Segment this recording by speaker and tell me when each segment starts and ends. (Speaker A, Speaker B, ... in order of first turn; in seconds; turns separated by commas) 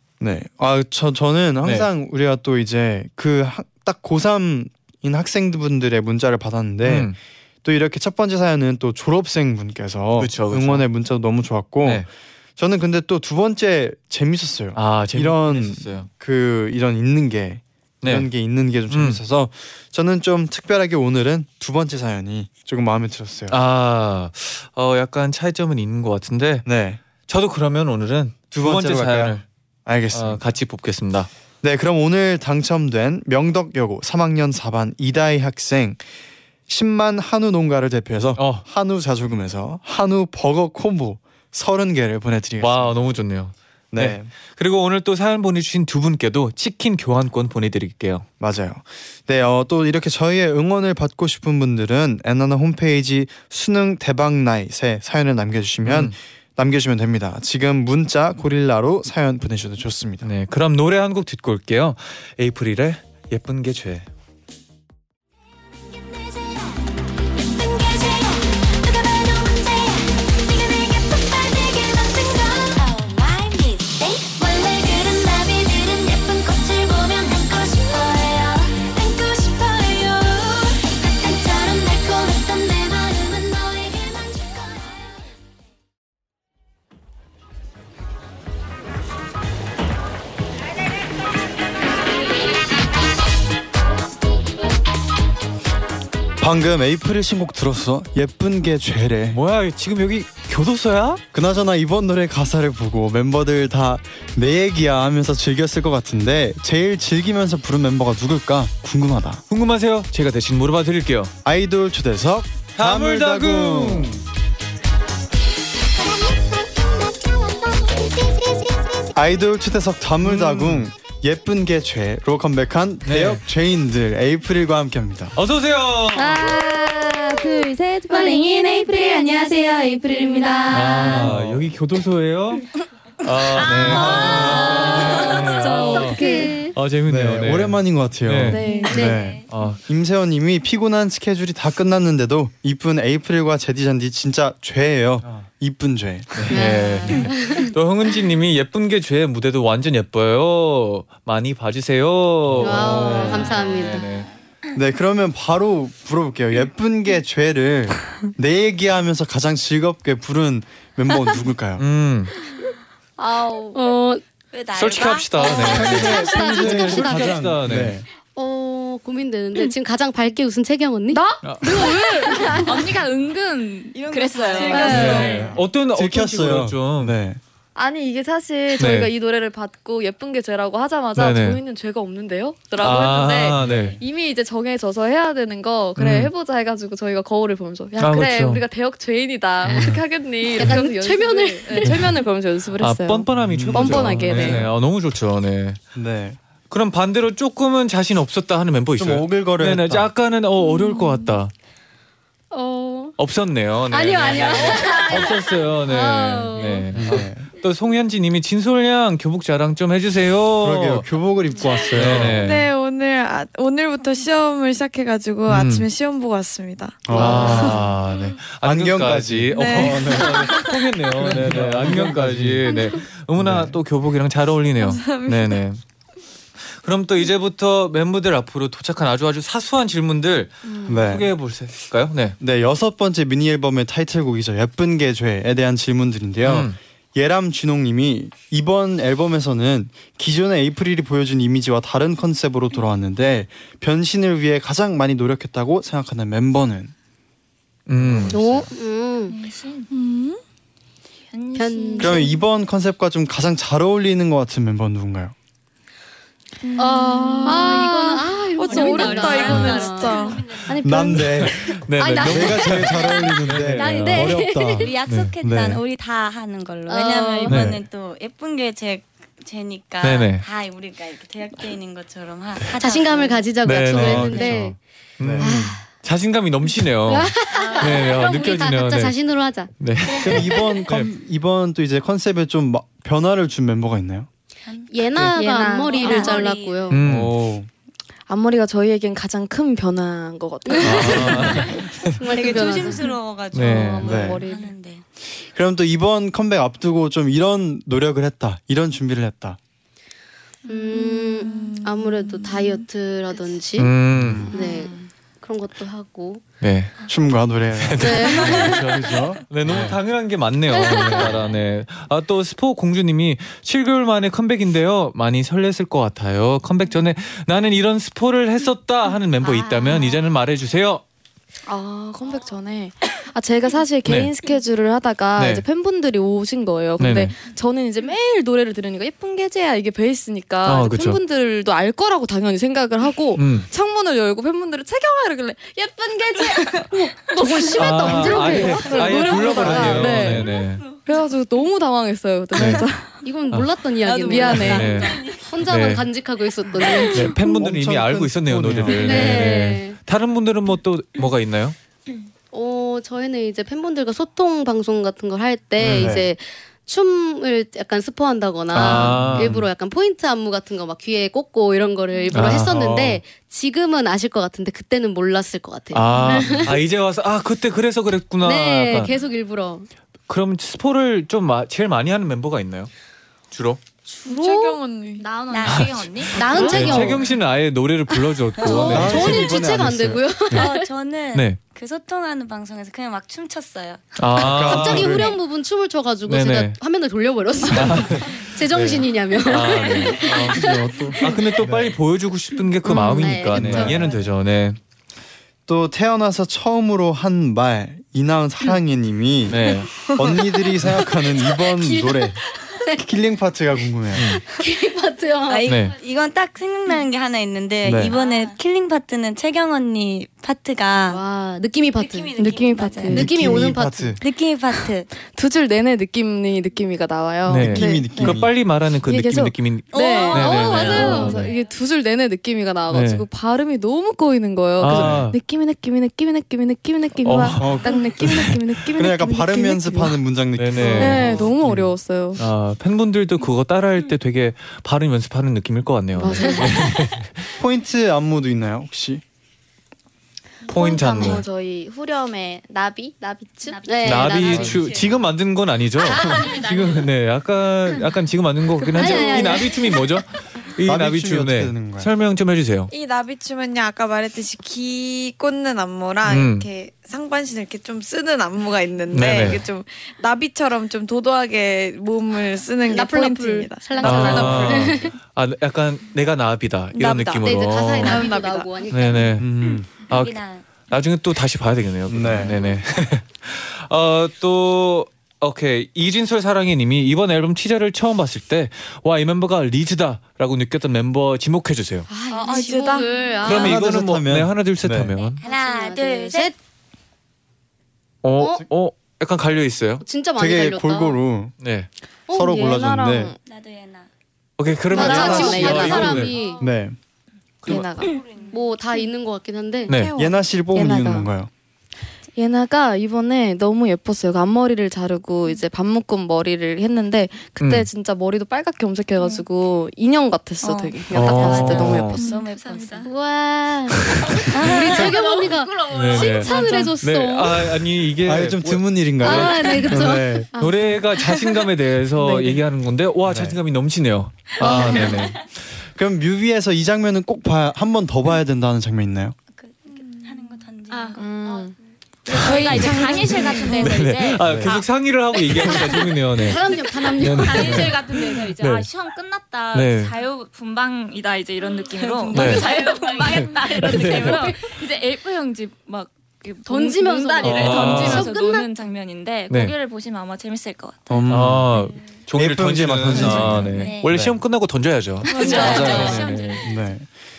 Speaker A: 0.2-23.6, Speaker B: 6.8-7.2, Speaker B: 10.2-10.9, Speaker B: 14.8-16.1, Speaker B: 18.0-18.3, Speaker B: 18.9-19.2, Speaker B: 23.5-26.7, Speaker A: 26.6-27.0, Speaker B: 27.3-29.4, Speaker A: 28.5-30.4, Speaker B: 30.1-31.3, Speaker A: 31.6-36.0, Speaker A: 36.7-42.9, Speaker B: 38.4-38.6, Speaker B: 42.6-48.3, Speaker A: 43.9-44.3, Speaker A: 48.4-60.3, Speaker B: 55.8-56.1, Speaker B: 60.2-64.1, Speaker C: 65.8-85.3, Speaker A: 96.4-99.4, Speaker B: 99.3-101.2, Speaker A: 101.3-109.4, Speaker B: 109.5-111.3, Speaker A: 111.4-114.2, Speaker B: 112.8-114.2, Speaker C: 116.2-119.1, Speaker A: 119.1-125.3, Speaker B: 120.2-120.9, Speaker B: 123.0-123.4, Speaker B: 125.3-126.6, Speaker D: 126.1-131.3, Speaker B: 130.7-132.6, Speaker A: 131.1-131.7, Speaker B: 133.2-138.7, Speaker A: 133.6-135.0, Speaker C: 133.8-135.9, Speaker E: 134.5-136.7, Speaker D: 134.6-136.7, Speaker A: 137.1-146.5, Speaker D: 138.5-139.1, Speaker B: 139.5-139.8, Speaker B: 145.2-145.5, Speaker B: 146.3-154.3, Speaker E: 146.5-147.7, Speaker A: 152.5-153.5, Speaker E: 152.6-154.1, Speaker C: 153.6-154.0, Speaker A: 154.7-161.8, Speaker B: 161.8-162.3, Speaker D: 163.2-163.8, Speaker E: 163.7-164.2, Speaker F: 164.5-166.4, Speaker B: 164.8-168.0, Speaker E: 165.4-167.3, Speaker A: 165.6-168.1, Speaker E: 168.3-171.2, Speaker D: 171.1-172.9, Speaker B: 171.4-171.8, Speaker E: 172.2-172.6, Speaker G: 172.6-175.5, Speaker H: 173.9-175.5, Speaker D: 174.6-175.3, Speaker E: 174.7-175.1, Speaker B: 174.8-177.2, Speaker A: 175.0-177.4, Speaker D: 177.8-194.7, Speaker B: 178.8-179.1, Speaker B: 181.2-181.6, Speaker B: 182.8-184.0, Speaker A: 183.6-184.0, Speaker B: 186.0-186.3, Speaker B: 188.0-188.6, Speaker B: 189.7-190.0, Speaker E: 190.5-192.1, Speaker B: 191.8-192.1, Speaker B: 192.8-195.8, Speaker A: 193.4-194.7, Speaker A: 195.9-196.4, Speaker B: 196.7-201.5, Speaker A: 199.0-200.1, Speaker E: 202.5-203.2, Speaker B: 203.2-211.1, Speaker E: 203.9-206.9, Speaker A: 206.9-207.5, Speaker A: 210.6-212.4, Speaker B: 211.9-212.7, Speaker H: 212.2-217.8, Speaker B: 215.5-215.9, Speaker A: 217.1-223.8, Speaker B: 217.1-225.8, Speaker H: 219.5-220.7, Speaker H: 224.8-225.6, Speaker B: 226.7-232.4, Speaker A: 230.9-231.3, Speaker A: 232.4-246.9, Speaker B: 236.4-236.8, Speaker B: 247.9-248.6, Speaker A: 248.0-248.7, Speaker E: 248.3-249.4, Speaker G: 249.3-249.9, Speaker H: 249.9-250.4, Speaker G: 251.3-252.3, Speaker E: 251.6-252.4, Speaker A: 252.0-255.3, Speaker D: 256.8-259.5, Speaker H: 256.8-260.7, Speaker E: 256.8-261.1, Speaker C: 258.9-260.8, Speaker G: 258.9-259.6, Speaker A: 260.7-265.8, Speaker D: 260.8-261.2, Speaker B: 261.1-264.4, Speaker E: 261.7-264.9, Speaker F: 264.8-273.5, Speaker E: 266.9-267.6, Speaker B: 267.5-267.7, Speaker A: 267.5-267.8, Speaker B: 270.0-270.4, Speaker E: 272.8-274.8, Speaker B: 273.6-279.2, Speaker A: 273.9-274.7, Speaker A: 275.2-275.8, Speaker E: 275.4-275.9, Speaker E: 277.1-280.8, Speaker C: 277.5-278.5, Speaker B: 279.8-281.1, Speaker A: 280.2-284.3, Speaker F: 284.7-284.9, Speaker E: 284.9-287.0, Speaker D: 285.1-286.4, Speaker F: 286.0-286.4, Speaker B: 286.9-287.4, Speaker A: 287.0-287.7, Speaker D: 288.3-291.6, Speaker E: 290.7-293.1, Speaker B: 290.8-292.1, Speaker F: 292.3-295.0, Speaker B: 293.5-294.1, Speaker D: 293.6-294.7, Speaker A: 294.0-294.4, Speaker A: 295.3-299.6, Speaker E: 300.7-303.9, Speaker H: 300.9-302.6, Speaker B: 303.8-304.5, Speaker A: 304.1-304.5, Speaker E: 304.5-306.4, Speaker D: 304.6-304.9, Speaker B: 306.6-306.9, Speaker A: 307.1-310.0, Speaker B: 307.8-321.0, Speaker E: 308.0-308.9, Speaker E: 310.8-311.4, Speaker D: 321.7-340.5, Speaker B: 324.1-324.3, Speaker B: 325.4-325.6, Speaker B: 327.0-327.3, Speaker B: 330.6-331.2, Speaker B: 333.4-333.7, Speaker E: 337.3-340.2, Speaker B: 337.8-340.8, Speaker D: 341.1-343.1, Speaker B: 342.6-342.9, Speaker E: 343.2-347.4, Speaker F: 344.0-345.3, Speaker D: 344.2-344.9, Speaker B: 344.5-346.1, Speaker B: 347.1-351.8, Speaker A: 347.3-349.4, Speaker E: 348.9-350.0, Speaker E: 352.5-366.8, Speaker B: 355.8-356.2, Speaker A: 355.8-356.3, Speaker B: 358.7-359.6, Speaker A: 358.8-359.7, Speaker B: 362.3-362.9, Speaker A: 362.6-363.2, Speaker B: 365.9-369.1, Speaker E: 368.4-369.9, Speaker B: 370.3-372.9, Speaker B: 373.5-373.8, Speaker H: 374.2-375.3, Speaker E: 374.3-374.8, Speaker G: 375.2-376.6, Speaker F: 375.5-375.9, Speaker B: 375.6-379.5, Speaker E: 376.3-377.3, Speaker H: 376.5-376.9, Speaker F: 376.5-377.0, Speaker A: 376.7-377.0, Speaker E: 378.6-380.9, Speaker A: 378.7-380.4, Speaker F: 380.5-384.1, Speaker B: 381.3-381.6, Speaker B: 384.2-385.3, Speaker A: 384.4-385.4, Speaker E: 384.4-391.4, Speaker B: 386.3-386.8, Speaker B: 387.7-394.8, Speaker A: 390.2-392.0, Speaker E: 392.8-394.1, Speaker A: 393.5-394.1, Speaker A: 395.7-402.4, Speaker B: 399.5-400.1, Speaker E: 401.6-403.0, Speaker A: 403.0-404.4, Speaker B: 404.1-404.4, Speaker E: 404.3-405.8, Speaker F: 405.5-411.2, Speaker B: 405.7-405.9, Speaker A: 407.8-408.2, Speaker C: 408.1-408.6, Speaker E: 411.1-412.4, Speaker C: 412.0-412.9, Speaker D: 412.4-413.3, Speaker F: 412.7-413.2, Speaker E: 413.1-414.2, Speaker A: 413.1-414.2, Speaker F: 414.2-415.1, Speaker D: 415.3-418.4, Speaker B: 417.5-421.5, Speaker A: 417.5-418.6, Speaker D: 419.0-430.2, Speaker F: 419.9-421.3, Speaker C: 420.6-421.7, Speaker G: 420.8-421.2, Speaker E: 420.8-421.4, Speaker B: 422.9-423.2, Speaker B: 424.8-425.4, Speaker A: 424.9-425.3, Speaker B: 427.2-428.5, Speaker A: 427.6-428.0, Speaker A: 428.9-431.5, Speaker B: 430.6-437.5, Speaker D: 430.9-432.4, Speaker D: 436.2-436.9, Speaker E: 436.3-436.8, Speaker A: 437.6-439.2, Speaker D: 440.7-443.8, Speaker B: 440.7-441.4, Speaker G: 443.7-445.1, Speaker E: 443.9-445.0, Speaker B: 444.0-452.9, Speaker G: 446.1-447.1, Speaker D: 448.9-449.7, Speaker E: 448.9-449.8, Speaker A: 450.9-452.1, Speaker H: 452.9-465.1, Speaker B: 456.2-456.7, Speaker B: 459.1-459.6, Speaker E: 462.9-465.1, Speaker B: 464.0-468.3, Speaker H: 466.9-468.9, Speaker E: 467.4-469.4, Speaker B: 468.9-482.1, Speaker A: 469.4-469.9, Speaker F: 470.1-470.7, Speaker A: 472.1-472.6, Speaker E: 482.1-483.8, Speaker H: 482.3-483.1, Speaker D: 482.4-483.1, Speaker A: 483.4-485.1, Speaker B: 483.4-485.4, Speaker F: 485.4-486.5, Speaker E: 485.4-486.6, Speaker B: 488.2-490.0, Speaker E: 488.4-488.6, Speaker E: 490.0-491.2, Speaker A: 490.4-491.5, Speaker B: 491.6-491.9, Speaker D: 492.3-493.4, Speaker A: 492.3-493.3, Speaker F: 493.5-494.1, Speaker B: 494.6-496.4, Speaker E: 494.9-496.7, Speaker D: 494.9-496.2, Speaker A: 494.9-497.0, Speaker C: 496.3-496.6, Speaker B: 497.6-497.9, Speaker D: 497.6-498.2, Speaker C: 498.0-498.6, Speaker E: 498.5-500.0, Speaker H: 499.9-500.4, Speaker A: 500.1-501.5, Speaker D: 500.7-501.3, Speaker D: 502.4-512.3, Speaker B: 507.6-507.9, Speaker F: 510.6-513.1, Speaker B: 511.1-512.2, Speaker G: 512.6-513.1, Speaker E: 513.1-517.8, Speaker C: 514.6-516.4, Speaker B: 515.9-519.8, Speaker G: 516.4-516.9, Speaker A: 518.2-520.5, Speaker E: 519.2-520.5, Speaker D: 519.5-519.9, Speaker D: 520.5-521.0, Speaker B: 520.6-525.4, Speaker D: 522.2-522.6, Speaker A: 523.3-523.6, Speaker D: 524.6-525.0, Speaker A: 525.9-529.4, Speaker F: 529.5-531.2, Speaker G: 530.9-531.7, Speaker D: 531.2-531.7, Speaker G: 532.3-534.8, Speaker B: 532.4-533.0, Speaker H: 532.5-533.2, Speaker B: 533.7-538.9, Speaker A: 534.4-534.8, Speaker G: 535.6-536.0, Speaker E: 535.6-538.4, Speaker G: 537.1-551.3, Speaker B: 539.7-540.1, Speaker F: 541.8-544.4, Speaker B: 542.3-542.7, Speaker B: 543.3-544.6, Speaker E: 546.6-548.7, Speaker B: 547.4-548.3, Speaker B: 549.5-549.8, Speaker A: 551.1-551.8, Speaker B: 551.3-556.6, Speaker A: 552.3-554.4, Speaker F: 553.8-554.0, Speaker C: 553.8-554.1, Speaker G: 555.3-556.8, Speaker F: 555.3-556.2, Speaker C: 555.4-556.2, Speaker A: 555.6-557.1